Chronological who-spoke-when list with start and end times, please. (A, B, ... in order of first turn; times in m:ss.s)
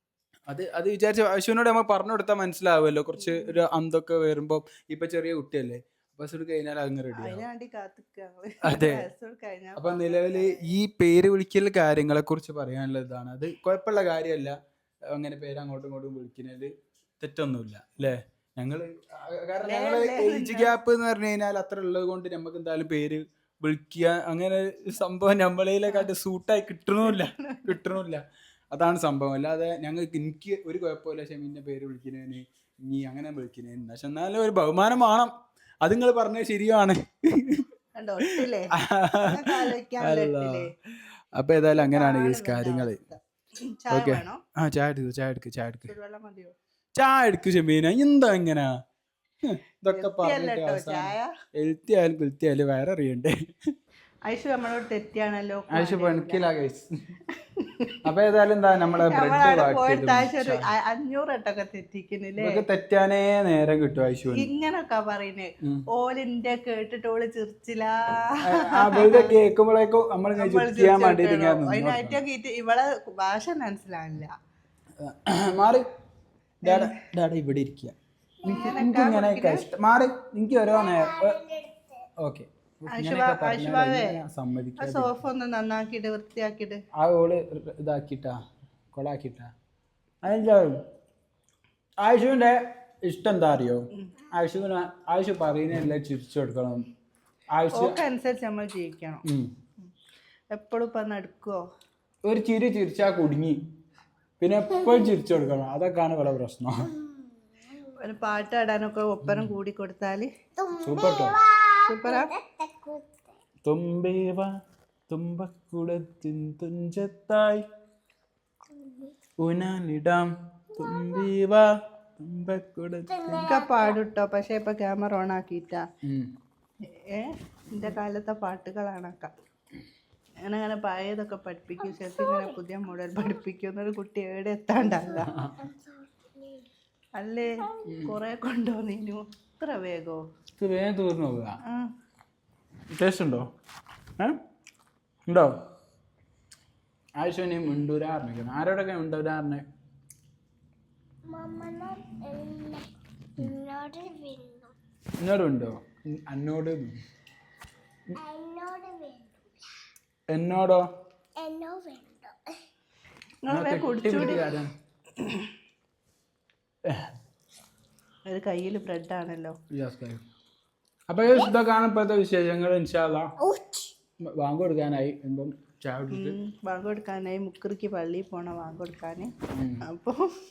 0:00.5-0:07.4 A
0:03.2-0:03.5 B
0:07.2-0:10.7 B
0:08.6-0:09.1 A
0:09.8-0:14.5 A
0:15.1-0:35.3 A
0:19.6-0:20.8 B
0:27.0-0:27.8 B
0:35.8-0:37.7 A
0:38.0-0:40.7 B
0:38.8-0:40.7 A
0:41.4-0:43.0 A
0:41.8-0:44.4 B
0:43.9-0:45.9 A
0:45.9-0:46.5 B
0:46.9-0:48.7 A
0:49.4-0:53.7 A
0:49.9-0:51.3 B
0:54.3-0:56.4 B
0:55.7-0:56.9 A
0:57.4-0:58.0 B
0:58.0-1:00.7 A
0:59.1-1:02.6 B
1:02.4-1:04.5 A
1:04.3-1:09.3 B
1:08.4-1:12.2 A
1:10.4-1:14.3 B
1:15.0-1:15.8 A
1:16.6-1:21.4 A
1:16.6-1:16.9 B
1:18.4-1:19.6 B
1:18.5-1:18.8 C
1:20.7-1:22.0 C
1:22.2-1:25.1 A
1:22.9-1:24.2 B
1:24.8-1:26.8 B
1:27.0-1:28.4 A
1:28.9-1:29.5 A
1:30.2-1:30.8 A
1:32.0-1:36.8 A
1:37.5-1:38.0 A
1:37.7-1:39.2 B
1:39.2-1:39.5 A
1:40.5-1:41.6 B
1:42.2-1:43.6 A
1:44.4-1:46.9 A
1:48.0-1:50.3 B
1:50.6-1:53.2 C
1:50.8-1:51.4 A
1:51.8-1:52.3 B
1:53.6-1:54.5 A
1:55.1-1:57.6 A
1:58.8-1:59.1 C
1:59.4-2:03.5 A
2:03.1-2:03.9 C
2:03.4-2:05.8 B
2:06.0-2:06.3 A
2:07.1-2:09.3 B
2:10.4-2:15.3 B
2:12.0-2:12.4 C
2:15.1-2:15.6 A
2:15.6-2:16.6 C
2:17.2-2:20.2 B
2:17.8-2:18.2 A
2:20.6-2:21.6 A
2:22.9-2:23.5 A
2:25.3-2:25.6 A
2:27.2-2:29.7 A
2:31.2-2:34.7 C
2:35.2-2:36.9 A
2:38.2-2:39.3 C
2:40.3-2:40.8 A
2:41.4-2:42.5 C
2:43.4-2:44.4 B
2:43.5-2:44.7 A
2:45.2-2:45.5 B
2:46.8-2:47.1 A
2:48.3-2:49.5 B
2:49.7-2:50.2 A
2:51.1-2:53.3 A
2:53.4-2:53.9 C
2:54.2-2:56.4 A
2:56.1-2:59.3 B
2:59.5-2:59.8 A
2:59.8-3:00.2 B